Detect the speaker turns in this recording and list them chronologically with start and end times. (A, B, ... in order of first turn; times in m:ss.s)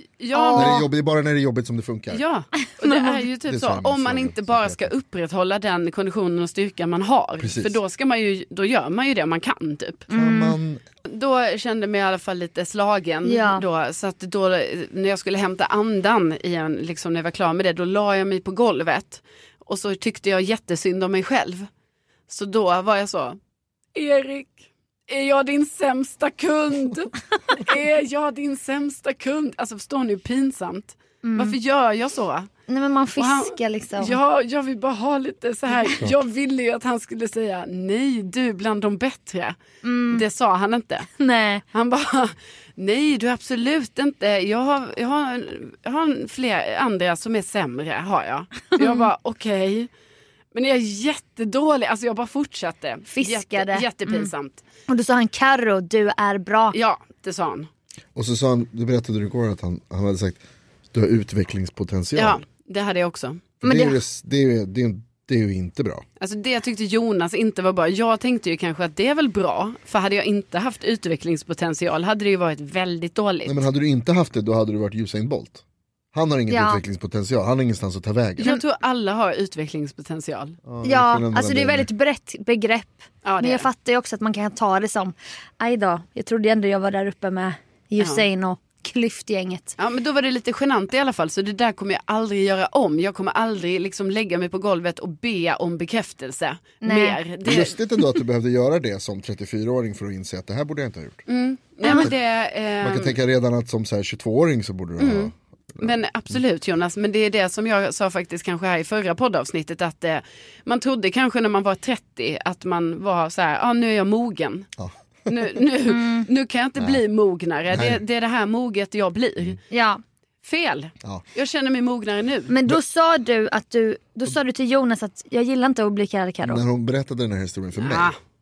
0:00.2-0:00.8 A
0:00.3-0:00.9 B
0:00.5-0:02.2 C
0:02.1-0:10.1 A
0:02.6-0:03.2 B
0:03.5-0:04.9 C
0:07.4-0:07.8 C
0:10.1-0:10.6 B
0:10.1-0:10.8 C
0:11.1-0:21.7 A
0:13.2-0:13.6 B
0:22.3-0:23.4 A
0:24.0-0:32.5 A
0:31.2-0:31.6 B
0:32.7-0:34.2 B
0:33.2-0:39.6 A
0:35.7-0:36.0 B
0:39.8-0:40.3 B
0:40.1-0:41.1 A
0:41.2-0:41.6 B
0:41.7-0:49.9 A
0:48.7-0:49.1 B
0:50.5-0:54.6 A
0:53.1-0:54.3 B
0:54.9-0:56.8 B
0:56.7-0:57.7 A
0:58.2-1:00.4 C
1:00.9-1:02.4 C
1:02.2-1:03.4 A
1:03.6-1:06.0 C
1:03.6-1:04.0 B
1:06.2-1:13.6 A
1:13.5-1:18.5 C
1:16.5-1:16.8 B
1:18.4-1:20.6 A
1:20.7-1:21.9 C
1:20.8-1:29.8 B
1:23.2-1:23.7 A
1:29.8-1:38.0 A
1:36.8-1:37.2 B
1:37.4-1:41.2 C
1:41.3-1:43.2 A
1:41.8-1:42.1 B
1:42.8-1:46.0 C
1:45.0-1:54.7 A
1:54.8-1:55.3 C
1:55.3-1:59.6 A
1:55.9-1:56.3 B
1:57.7-1:58.0 C
1:59.7-2:00.0 B
2:00.4-2:02.5 A
2:02.5-2:06.6 B
2:06.4-2:08.1 C
2:07.8-2:08.2 A